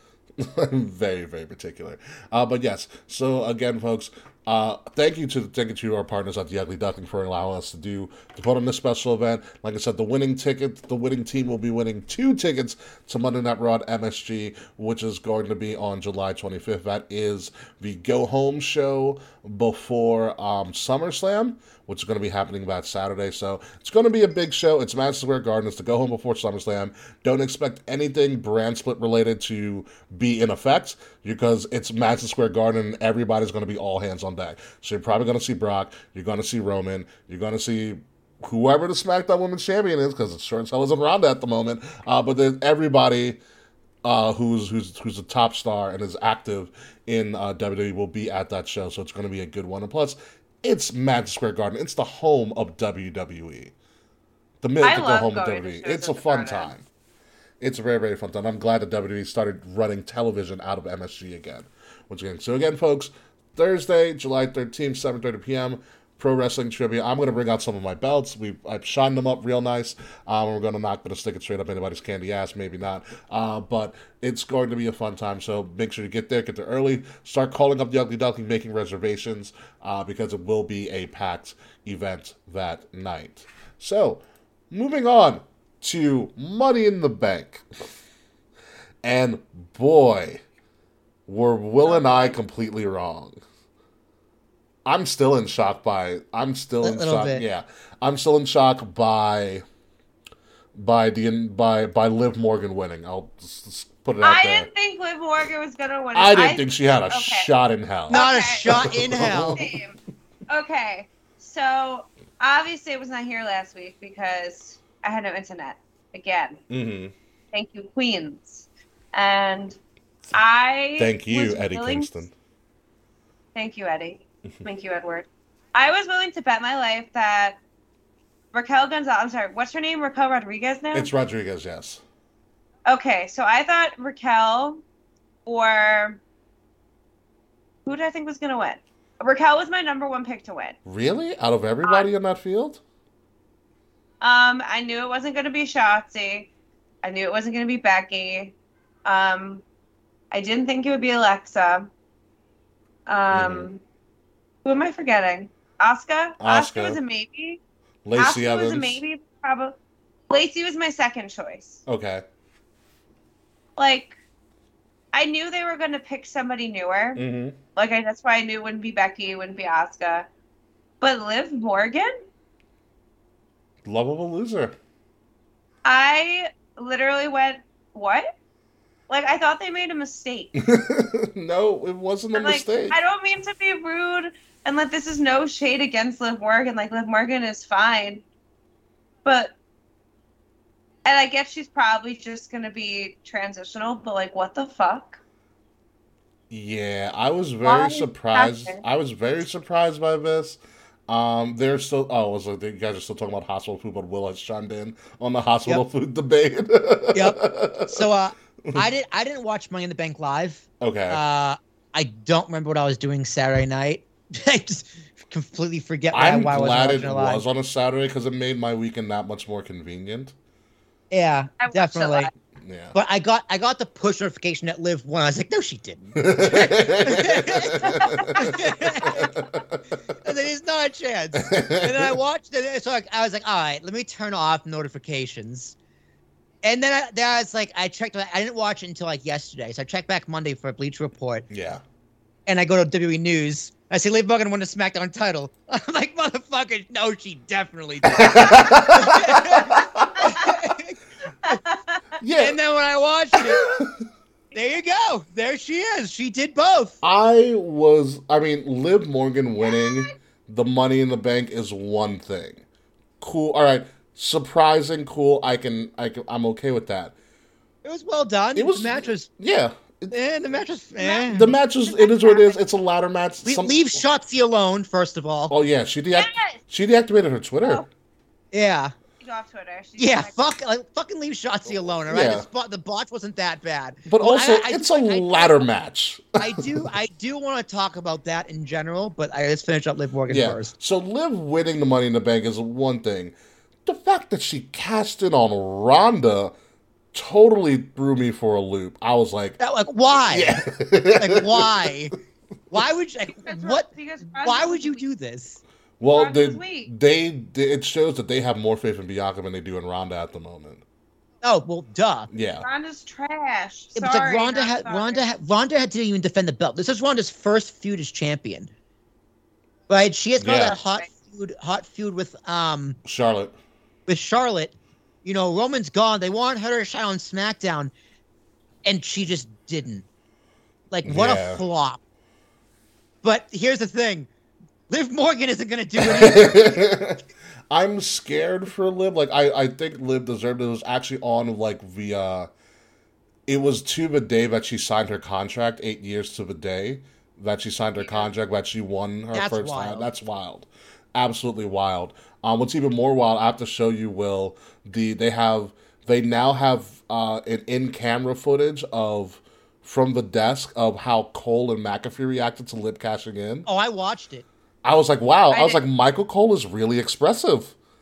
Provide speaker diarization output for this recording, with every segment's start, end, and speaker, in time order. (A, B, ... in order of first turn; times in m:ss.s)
0:00.4-0:43.4 A
0:44.0-0:53.7 A
0:54.6-0:56.8 A
0:54.8-0:56.7 B
0:57.6-1:27.7 A
1:29.0-1:30.4 A
1:31.3-1:33.4 A
1:31.8-1:32.4 B
1:34.8-1:39.6 A
1:36.8-1:37.4 C
1:40.8-1:44.7 A
1:44.2-1:47.5 B
1:46.1-1:49.8 A
1:48.1-1:50.0 B
1:48.1-1:49.6 C
1:50.5-1:56.6 B
1:56.7-1:57.1 A
1:57.5-1:59.8 B
2:00.3-2:02.1 B
2:01.0-2:02.3 A
2:03.6-2:07.6 B
2:08.5-2:11.1 B
2:10.9-2:12.0 A
2:12.9-2:14.8 B
2:15.5-2:16.2 B
2:17.9-2:20.8 B
2:20.9-2:22.8 A
2:21.8-2:22.1 B
2:24.2-2:26.5 B
2:27.0-2:29.6 B
2:30.3-2:31.9 B
2:33.1-2:33.8 B
2:33.3-2:33.7 A
2:34.6-2:37.6 B
2:36.4-2:37.0 A
2:38.0-2:39.0 A
2:38.2-2:39.8 B
2:40.3-2:41.8 B
2:41.9-2:42.2 A
2:43.8-2:44.2 B
2:45.1-2:47.2 B
2:47.2-2:47.6 A
2:47.8-2:50.3 B
2:51.0-2:52.1 B
2:53.8-2:54.8 A
2:55.8-2:58.3 B
2:59.1-3:00.5 B
3:00.6-3:03.0 A
3:02.4-3:08.2 B
3:09.2-3:09.5 B
3:11.0-3:15.2 B
3:16.5-3:28.1 A
3:17.6-3:18.8 B
3:27.1-3:37.4 C
3:30.8-3:31.2 A
3:36.1-3:40.3 A
3:41.1-3:42.3 C
3:41.6-3:42.3 B
3:42.6-3:43.0 A
3:42.9-3:49.4 C
3:46.2-3:49.8 A
3:47.9-3:48.4 B
3:50.2-3:55.8 C
3:51.4-3:52.1 A
3:56.6-4:01.5 C
4:01.5-4:01.8 A
4:02.5-4:11.6 C
4:08.1-4:10.3 A
4:11.5-4:12.0 B
4:12.2-4:12.6 A
4:12.4-4:13.7 C
4:13.3-4:14.0 A
4:14.5-4:17.0 C
4:17.0-4:22.6 A
4:23.2-4:27.2 A
4:27.8-4:29.3 C
4:28.6-4:30.1 A
4:30.1-4:31.5 C
4:31.0-4:31.3 B
4:31.3-4:34.0 A
4:31.8-4:32.6 B
4:33.4-4:35.5 C
4:35.5-4:37.8 A
4:36.2-4:36.6 B
4:37.6-4:37.9 B
4:38.5-4:38.9 C
4:39.2-4:40.4 B
4:40.0-4:45.6 C
4:42.1-4:42.5 A
4:44.1-4:46.9 A
4:46.4-4:50.7 C
4:50.3-4:53.4 A
4:53.9-4:56.5 A
4:57.1-4:59.6 A
4:59.6-5:02.1 C
5:00.3-5:01.9 A
5:02.7-5:05.6 C
5:03.4-5:05.0 B
5:06.0-5:10.8 A
5:06.1-5:06.9 B
5:11.4-5:12.3 C
5:12.3-5:12.7 A
5:12.6-5:15.2 B
5:14.0-5:18.7 C
5:19.9-5:23.0 C
5:20.4-5:20.8 A
5:23.0-5:23.6 A
5:24.1-5:27.9 C
5:28.8-5:30.0 C
5:30.9-5:32.0 C
5:31.0-5:31.6 A
5:33.2-5:34.3 C
5:34.9-5:37.0 C
5:36.0-5:42.5 A
5:43.5-6:03.7 A
5:49.3-5:50.1 C
6:03.7-6:04.5 C
6:04.8-6:07.8 A
6:05.5-6:05.8 B